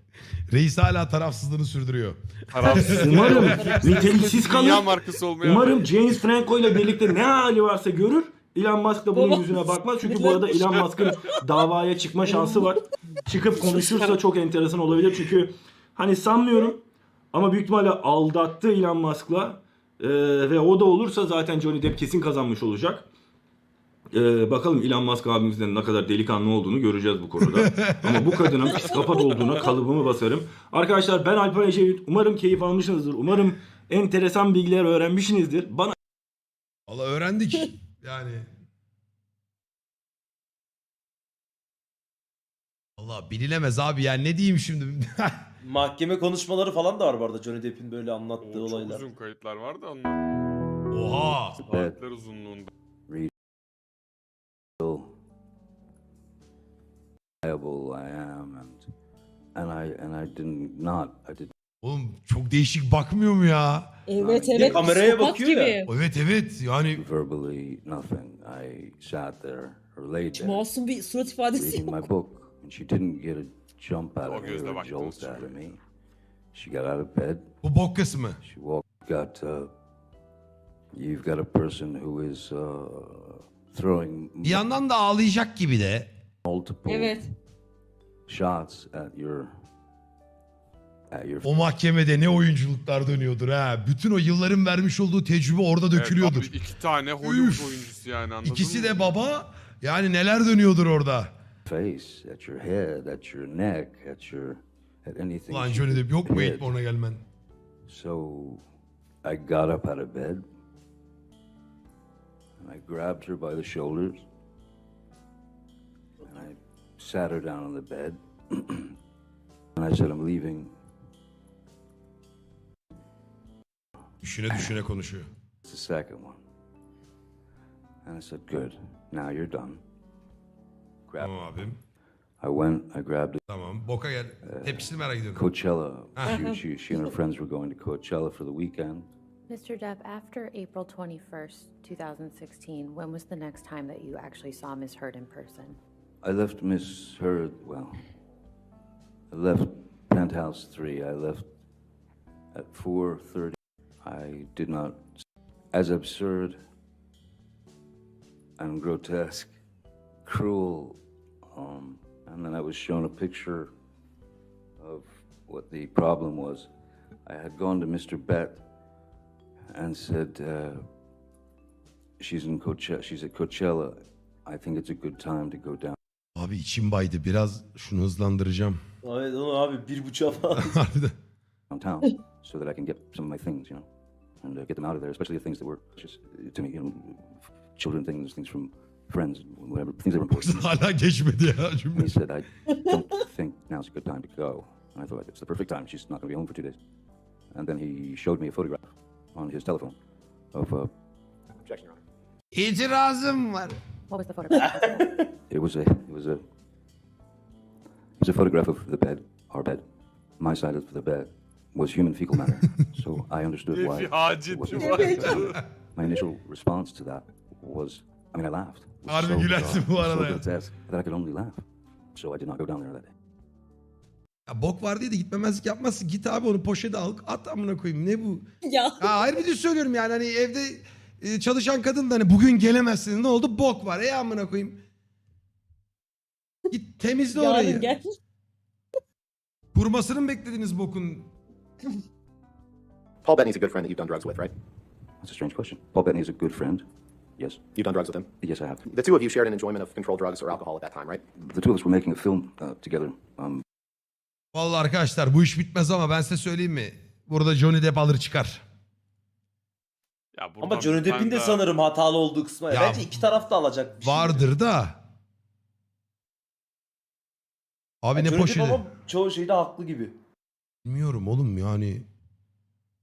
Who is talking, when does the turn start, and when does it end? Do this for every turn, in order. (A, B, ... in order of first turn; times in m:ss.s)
0:00.5-0:03.8 A
0:02.5-0:05.9 B
0:02.6-0:04.3 C
0:02.9-0:23.1 D
0:09.1-0:10.5 C
0:12.2-0:12.7 C
0:13.6-0:14.1 C
0:24.1-0:36.0 D
0:27.5-0:28.8 A
0:36.9-0:38.5 A
0:43.0-0:45.4 A
0:45.6-0:49.0 E
0:48.4-0:50.2 B
0:50.9-0:51.6 A
0:51.6-0:52.0 F
0:51.6-0:52.7 B
0:54.8-0:55.1 F
0:57.4-0:58.8 F
0:59.5-1:01.5 F
1:01.8-1:03.9 A
1:04.1-1:05.9 C
1:04.2-1:04.5 F
1:04.5-1:05.8 E
1:05.8-1:07.0 A
1:07.0-1:10.7 F
1:10.4-1:12.0 C
1:11.5-1:15.8 F
1:14.2-1:15.6 B
1:16.5-1:17.5 F
1:17.6-1:18.4 A
1:18.4-1:19.7 F
1:20.9-1:24.6 F
1:24.4-1:26.1 A
1:26.4-1:27.2 F
1:26.9-1:27.3 C
1:28.3-1:29.5 F
1:31.1-1:31.6 F
1:31.4-1:36.6 A
1:36.0-1:39.1 B
1:37.2-1:41.3 A
1:41.6-1:46.8 F
1:45.5-1:47.2 A
1:47.9-1:48.6 F
1:49.2-1:50.4 F
1:52.6-1:54.2 F
1:56.2-1:59.0 F
1:59.8-2:00.7 F
2:04.2-2:05.3 A
2:05.6-2:06.4 F
2:08.0-2:09.8 F
2:11.1-2:11.4 F
2:11.2-2:11.8 A
2:12.4-2:13.4 F
2:13.5-2:15.4 A
2:14.4-2:19.1 F
2:16.2-2:16.4 A
2:16.3-2:16.6 C
2:19.5-2:25.8 G
2:26.2-2:28.0 F
2:29.3-2:31.5 F
2:32.5-2:35.2 F
2:35.7-2:36.6 F
2:38.6-2:39.5 F
2:40.2-2:43.7 F
2:44.8-2:46.7 F
2:47.2-2:48.6 F
2:49.7-2:50.8 F
2:52.2-2:56.0 F
2:56.4-2:58.8 A
2:59.0-3:00.8 E
3:00.6-3:01.1 A
3:01.7-3:03.9 F
3:04.4-3:10.8 F
3:10.3-3:12.1 A
3:12.0-3:16.8 F
3:12.7-3:13.0 C
3:17.5-3:20.0 F
3:20.5-3:20.9 F
3:21.7-3:22.0 H
3:22.5-3:23.8 A
3:24.1-3:25.0 G
3:24.5-3:25.2 E
3:25.5-3:26.4 F
3:28.2-3:29.8 F
3:30.4-3:41.6 F
3:33.7-3:35.6 B
3:34.7-3:35.4 C
3:39.1-3:40.5 A
3:42.1-3:43.1 F
3:44.5-3:48.5 A
3:48.6-3:49.3 C
3:49.0-3:54.8 A
3:56.7-3:57.9 A
3:57.3-3:58.1 C
3:59.7-4:01.3 A
4:03.2-4:04.5 H
4:05.2-4:06.8 F
4:07.4-4:07.7 F
4:07.8-4:08.3 H
4:08.4-4:08.8 F
4:08.9-4:11.2 H
4:11.4-4:13.6 F
4:14.5-4:18.6 A
4:20.4-4:21.6 B
4:20.6-4:24.4 E
4:22.7-4:23.2 A
4:24.0-4:25.0 A
4:28.0-4:28.8 A
4:28.2-4:30.2 E
4:30.8-4:32.0 A